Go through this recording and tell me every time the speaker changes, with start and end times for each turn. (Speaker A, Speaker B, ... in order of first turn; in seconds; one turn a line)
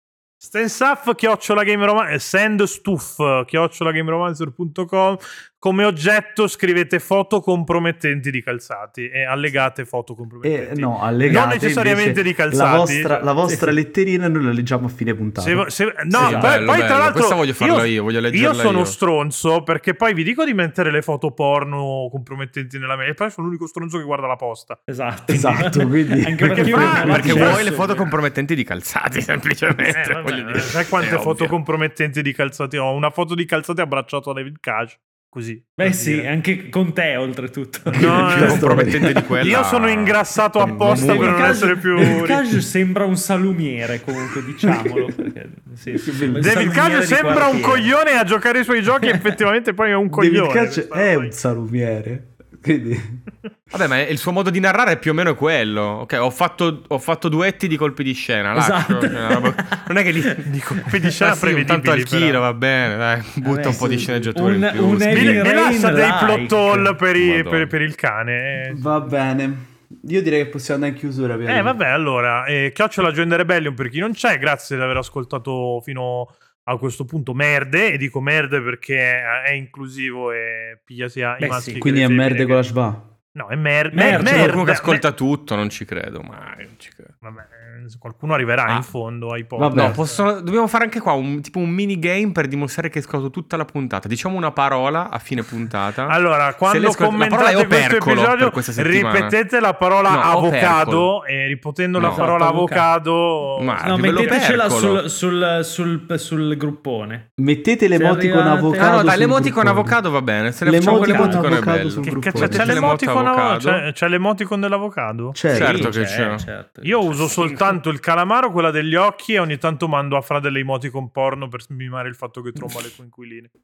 Speaker A: 0.4-13.3
Speaker B: 10.4-16.3
Speaker C: 13.4-13.7
Speaker A: 15.4-24.8
Speaker C: 16.2-16.5
Speaker D: 16.2-19.0
Speaker C: 24.9-28.1
Speaker B: 25.3-27.6
Speaker A: 25.4-25.6
Speaker A: 26.4-27.8
Speaker D: 27.0-31.6
Speaker A: 29.9-36.3
Speaker C: 35.8-38.8
Speaker A: 37.9-38.7
Speaker B: 37.9-39.3
Speaker D: 38.3-41.7
Speaker A: 39.4-42.4
Speaker C: 40.8-47.9
Speaker B: 42.0-42.6
Speaker B: 44.6-45.1
Speaker B: 45.9-46.9
Speaker A: 46.4-51.3
Speaker B: 50.1-53.2
Speaker D: 53.7-65.5
Speaker C: 58.5-60.5
Speaker A: 60.4-62.4
Speaker C: 63.4-66.9
Speaker A: 65.1-68.8
Speaker D: 67.2-67.7
Speaker B: 68.7-71.8
Speaker A: 71.5-82.7
Speaker C: 81.4-81.8
Speaker B: 81.8-83.1
Speaker A: 83.3-85.0
Speaker C: 83.9-84.6
Speaker D: 84.1-87.1
Speaker A: 87.2-90.2
Speaker B: 89.6-90.0
Speaker D: 89.7-99.3
Speaker A: 96.1-104.3
Speaker D: 100.1-101.1
Speaker D: 102.0-102.3
Speaker C: 102.0-102.9
Speaker D: 103.6-105.0
Speaker C: 103.8-107.3
Speaker B: 107.4-110.0
Speaker C: 107.9-109.2
Speaker D: 108.8-113.8
Speaker B: 110.6-112.9
Speaker C: 110.8-111.7
Speaker A: 112.1-115.4
Speaker B: 115.3-115.9
Speaker D: 115.5-116.5
Speaker C: 115.5-117.8
Speaker A: 116.8-123.5